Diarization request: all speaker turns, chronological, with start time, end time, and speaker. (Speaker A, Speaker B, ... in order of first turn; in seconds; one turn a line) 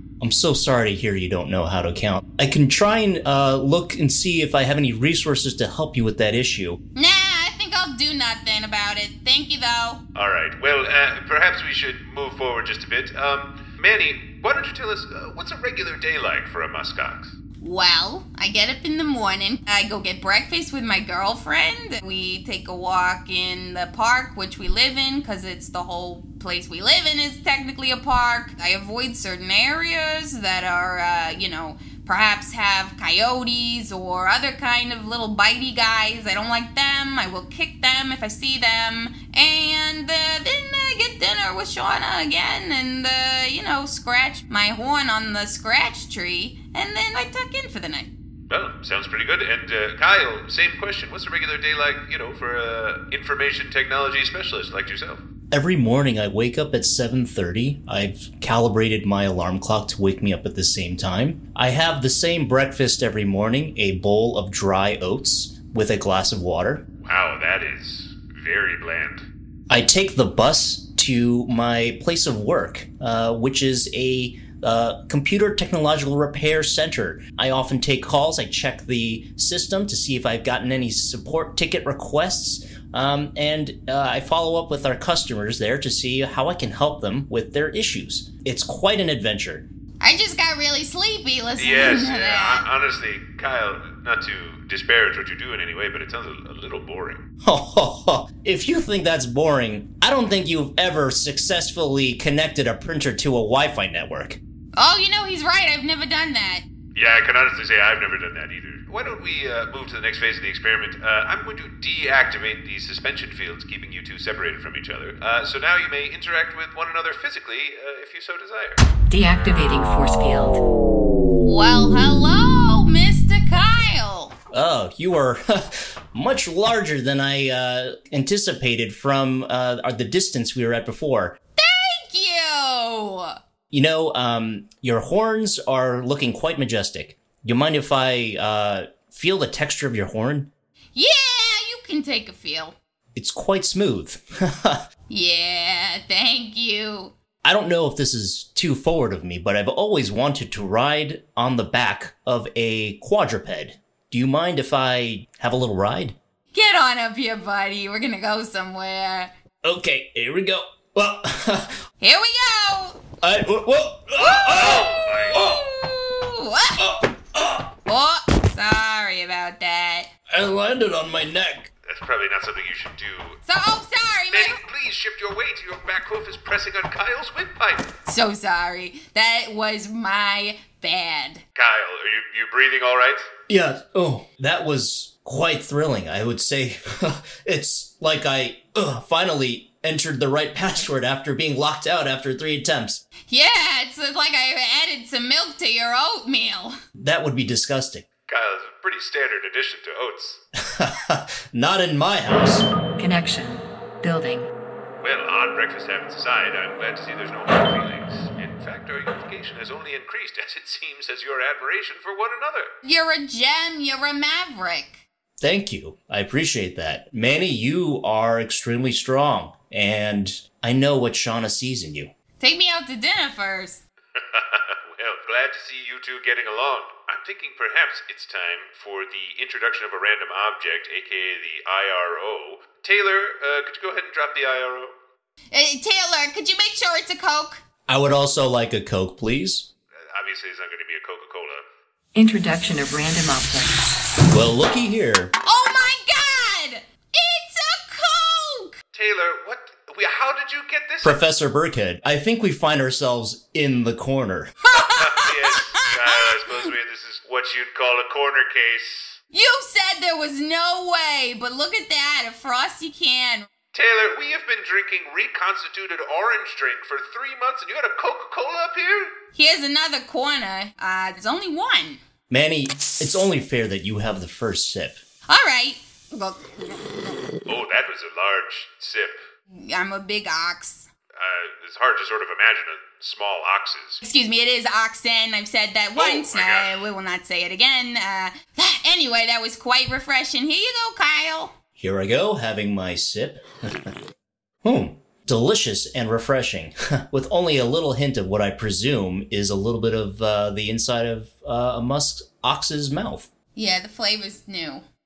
Speaker A: 0.2-6.8
Speaker B: 6.9-10.0
Speaker C: 10.2-17.4
Speaker B: 17.6-48.1
Speaker C: 48.5-55.2
Speaker A: 55.5-66.8
Speaker C: 67.0-69.2
Speaker A: 69.7-89.7
Speaker B: 90.0-92.6
Speaker C: 91.6-97.2
Speaker A: 97.4-104.4
Speaker B: 104.8-106.7
Speaker C: 107.0-118.8
Speaker D: 119.1-120.6
Speaker B: 121.4-124.3
Speaker A: 124.5-131.4
Speaker B: 131.6-133.3
Speaker A: 133.7-140.5
Speaker B: 140.9-142.8
Speaker A: 143.1-144.8
Speaker B: 145.1-147.1
Speaker A: 147.4-156.2
Speaker B: 156.5-159.3
Speaker A: 159.6-161.8
Speaker B: 162.0-163.0
Speaker A: 163.2-165.7
Speaker B: 164.2-166.8
Speaker C: 164.5-165.4
Speaker A: 166.8-167.7
Speaker B: 167.9-170.1
Speaker A: 170.3-171.7
Speaker C: 171.8-173.4
Speaker B: 173.4-174.6
Speaker C: 174.3-177.8
Speaker B: 178.1-181.4
Speaker C: 181.5-183.2
Speaker A: 183.5-193.0
Speaker B: 193.3-196.8
Speaker A: 197.0-198.0
Speaker C: 198.3-200.4
Speaker A: 200.7-202.7
Speaker D: 203.0-204.5
Speaker C: 205.0-212.7
Speaker B: 212.8-215.0
Speaker A: 215.4-222.1
Speaker B: 222.4-223.8
Speaker C: 224.2-235.0
Speaker B: 235.5-237.6
Speaker A: 237.9-239.7
Speaker C: 240.1-241.6
Speaker D: 242.1-243.9
Speaker A: 244.3-245.3
Speaker B: 245.4-248.8
Speaker C: 248.9-251.2
Speaker A: 251.0-254.5
Speaker B: 254.7-255.5
Speaker C: 254.7-259.2
Speaker B: 259.3-263.5
Speaker C: 263.7-269.1
Speaker B: 269.3-272.0
Speaker A: 272.3-275.0
Speaker B: 275.3-277.2
Speaker C: 277.5-279.2
Speaker B: 279.5-280.9
Speaker C: 281.2-284.0
Speaker B: 284.0-291.5
Speaker C: 286.0-286.8
Speaker A: 291.8-293.9
Speaker A: 294.6-303.3
Speaker B: 303.5-304.9